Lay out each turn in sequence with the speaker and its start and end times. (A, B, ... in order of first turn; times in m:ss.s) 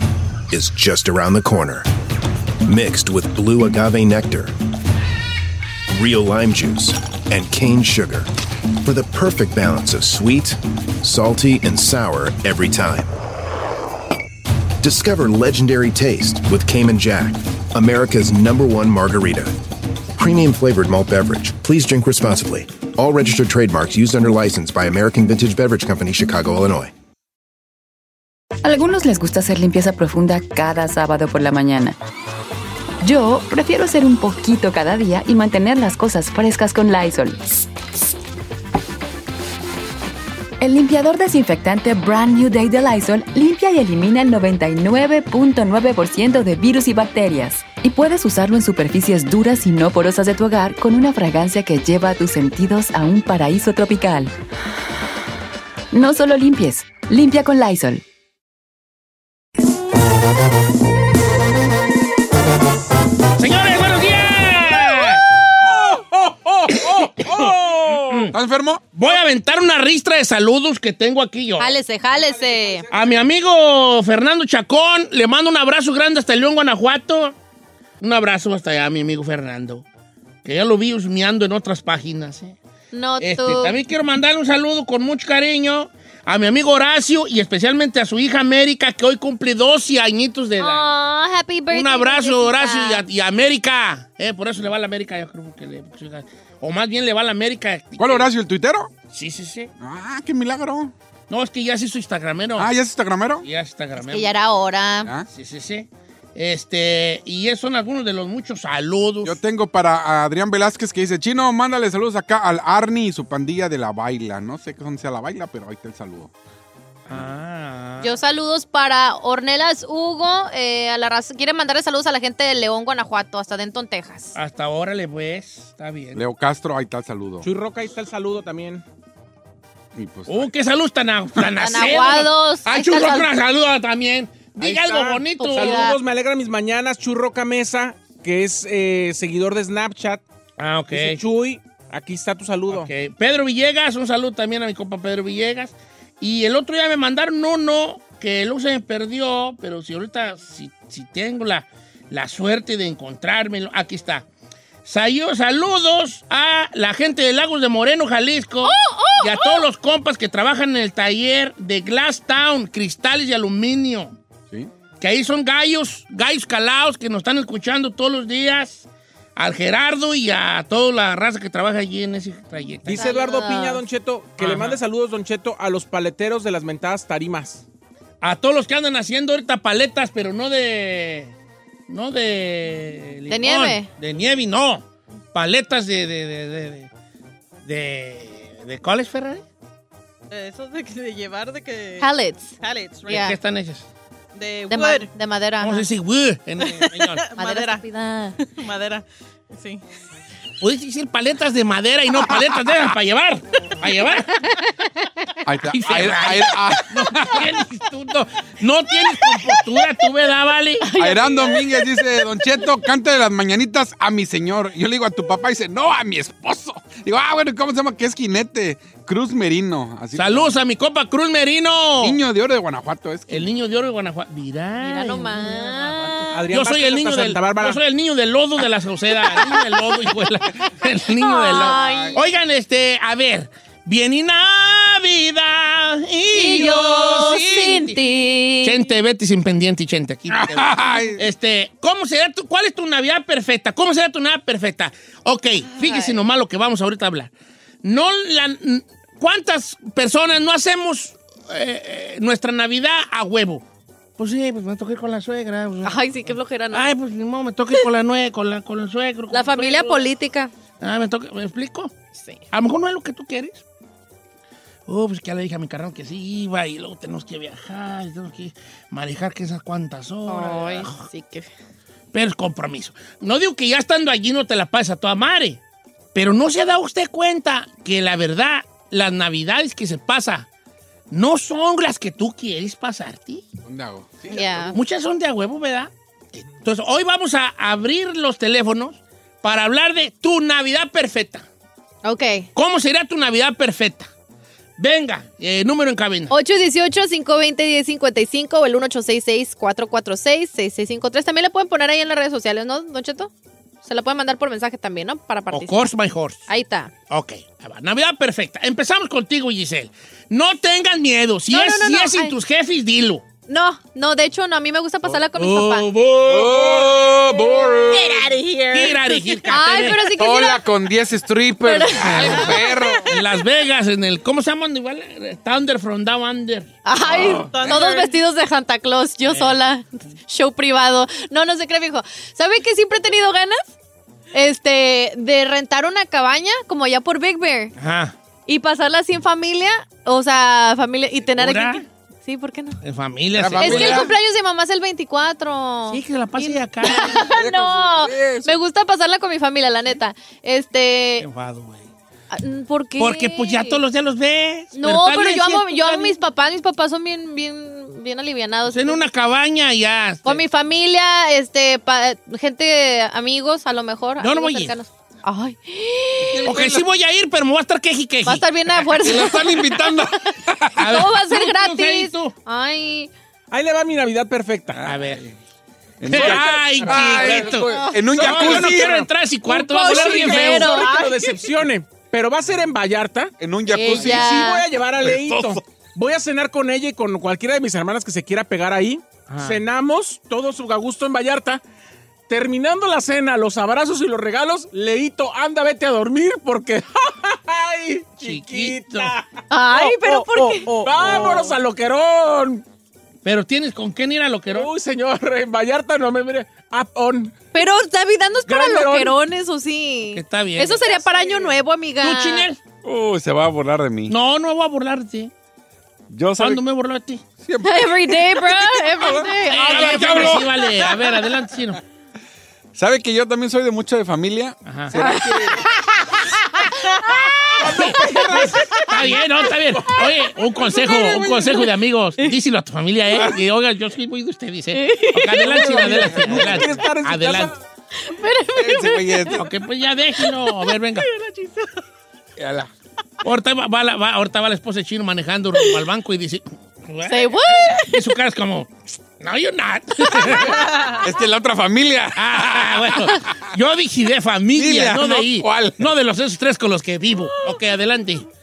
0:00.5-0:01.9 A
0:02.7-0:04.5 A
0:05.9-0:08.3 A
0:08.8-0:13.1 A
0:14.8-0:19.5 A
0:20.2-0:26.9 A
0:28.6-0:32.0 B
0:33.0-0:37.6 B
0:40.6-0:54.3 B
0:55.9-0:58.0 B
1:03.4-1:05.2 C
1:05.4-1:08.3 D
1:06.7-1:07.5 C
1:08.1-1:08.3 C
1:08.3-1:08.8 E
1:08.9-1:11.8 C
1:11.6-1:12.9 F
1:12.1-1:13.1 D
1:12.9-1:17.4 C
1:18.0-1:19.8 C
1:20.4-1:22.6 C
1:22.9-1:23.8 F
1:23.2-1:30.9 C
1:30.6-1:33.0 F
1:31.7-1:38.3 C
1:38.0-1:38.9 E
1:39.1-1:39.7 C
1:39.8-1:40.9 E
1:41.3-1:42.7 C
1:42.6-1:43.4 E
1:43.4-1:44.3 C
1:44.1-1:45.1 F
1:45.3-1:49.4 C
1:49.2-1:56.3 E
1:57.1-1:58.2 C
1:58.0-2:04.3 F
2:04.3-2:06.2 C
2:06.2-2:07.5 E
2:07.4-2:08.8 D
2:10.0-2:10.5 E
2:10.3-2:15.9 C
2:11.6-2:13.3 F
2:14.6-2:20.2 D
2:15.4-2:16.0 F
2:20.6-2:21.2 C
2:20.9-2:22.9 D
2:22.7-2:34.3 C
2:34.8-2:44.2 C
2:38.6-2:39.6 F
2:45.0-2:53.1 C
2:52.9-2:57.6 D
2:52.9-2:53.8 F
2:54.4-2:54.8 C
2:58.2-3:01.3 C
3:01.9-3:06.9 C
3:03.3-3:03.9 F
3:07.6-3:09.4 C
3:10.3-3:13.3 G
3:12.0-3:13.4 F
3:13.1-3:13.9 C
3:14.4-3:15.1 G
3:14.7-3:15.9 F
3:15.6-3:17.3 C
3:17.0-3:17.9 G
3:17.4-3:18.4 F
3:18.4-3:19.8 G
3:20.6-3:24.4 C
3:25.5-3:27.4 E
3:25.7-3:30.9 C
3:30.8-3:32.2 F
3:31.0-3:40.5 E
3:40.2-3:42.2 C
3:42.0-3:43.5 E
3:43.3-3:58.0 C
3:44.8-3:46.4 F
3:46.3-3:47.8 D
3:49.3-3:49.6 F
3:51.2-3:52.2 F
3:51.6-3:52.1 E
3:56.3-3:58.9 F
3:58.6-4:07.3 C
4:00.3-4:01.2 E
4:05.7-4:06.3 F
4:07.8-4:13.6 C
4:14.2-4:16.0 C
4:15.8-4:16.9 F
4:16.7-4:20.0 C
4:19.3-4:20.5 F
4:20.8-4:21.9 C
4:22.2-4:22.4 F
4:22.5-4:23.6 C
4:24.9-4:31.1 C
4:30.3-4:31.5 F
4:32.1-4:35.6 C
4:36.2-4:40.5 C
4:41.1-4:43.4 C
4:43.6-4:44.7 E
4:44.3-4:44.8 F
4:44.7-4:51.5 C
4:52.0-4:52.5 F
4:52.6-4:54.1 C
4:54.8-4:56.3 C
4:56.3-5:03.3 F
5:03.8-5:05.9 F
5:05.5-5:06.5 C
5:06.5-5:06.9 F
5:07.1-5:13.2 C
5:11.5-5:12.4 F
5:13.5-5:15.9 F
5:15.3-5:16.9 C
5:16.3-5:18.4 E
5:17.4-5:20.7 F
5:18.7-5:20.1 C
5:20.1-5:23.1 E
5:21.6-5:23.0 F
5:22.0-5:26.7 C
5:26.8-5:33.7 F
5:27.0-5:28.0 E
5:27.4-5:28.1 G
5:29.3-5:29.6 C
5:34.3-5:37.7 F
5:37.8-5:38.2 C
5:38.5-5:42.8 F
5:41.3-5:41.9 C
5:42.8-5:44.1 C
5:43.4-5:44.1 E
5:43.6-5:51.3 F
5:45.9-5:47.2 C
5:47.1-5:48.6 E
5:51.2-5:51.9 C
5:52.3-5:53.8 F
5:53.0-5:56.2 C
5:54.7-5:59.1 F
5:58.7-6:00.4 C
6:00.2-6:06.6 F
6:04.2-6:04.8 C
6:06.2-6:06.8 E
6:06.4-6:08.4 C
6:08.2-6:13.1 F
6:08.9-6:10.8 E
6:10.8-6:12.4 C
6:13.5-6:15.0 D
6:14.8-6:15.3 C
6:16.0-6:19.1 E
6:16.1-6:20.9 C
6:16.1-6:17.4 D
6:17.6-6:18.6 F
6:19.5-6:21.1 F
6:19.9-6:31.6 D
6:23.4-6:25.6 E
6:23.7-6:24.6 F
6:29.3-6:29.6 C
6:32.3-6:42.6 D
6:38.2-6:39.1 C
6:39.5-6:41.5 F
6:41.0-6:41.4 C
6:43.2-6:44.7 C
6:44.5-6:47.3 D
6:47.5-6:52.5 F
6:48.5-6:49.2 D
6:50.1-6:51.0 C
6:51.0-6:51.5 G
6:52.0-6:52.6 C
6:52.8-6:54.2 E
6:54.1-6:55.3 C
6:56.1-6:56.6 E
6:56.4-6:57.2 C
6:57.4-7:01.1 E
6:57.6-7:00.4 F
6:59.5-7:01.8 C
7:02.8-7:05.6 E
7:04.6-7:05.0 C
7:05.0-7:05.7 F
7:06.6-7:08.3 F
7:07.6-7:09.2 E
7:07.6-7:17.5 C
7:11.0-7:11.4 E
7:14.7-7:15.9 F
7:15.5-7:17.6 D
7:15.9-7:16.8 E
7:18.0-7:19.4 F
7:18.5-7:19.5 E
7:19.3-7:21.1 C
7:21.2-7:21.6 G
7:22.4-7:22.7 E
7:23.2-7:30.6 C
7:27.1-7:28.1 F
7:31.0-7:33.4 E
7:32.2-7:38.3 C
7:34.6-7:35.9 E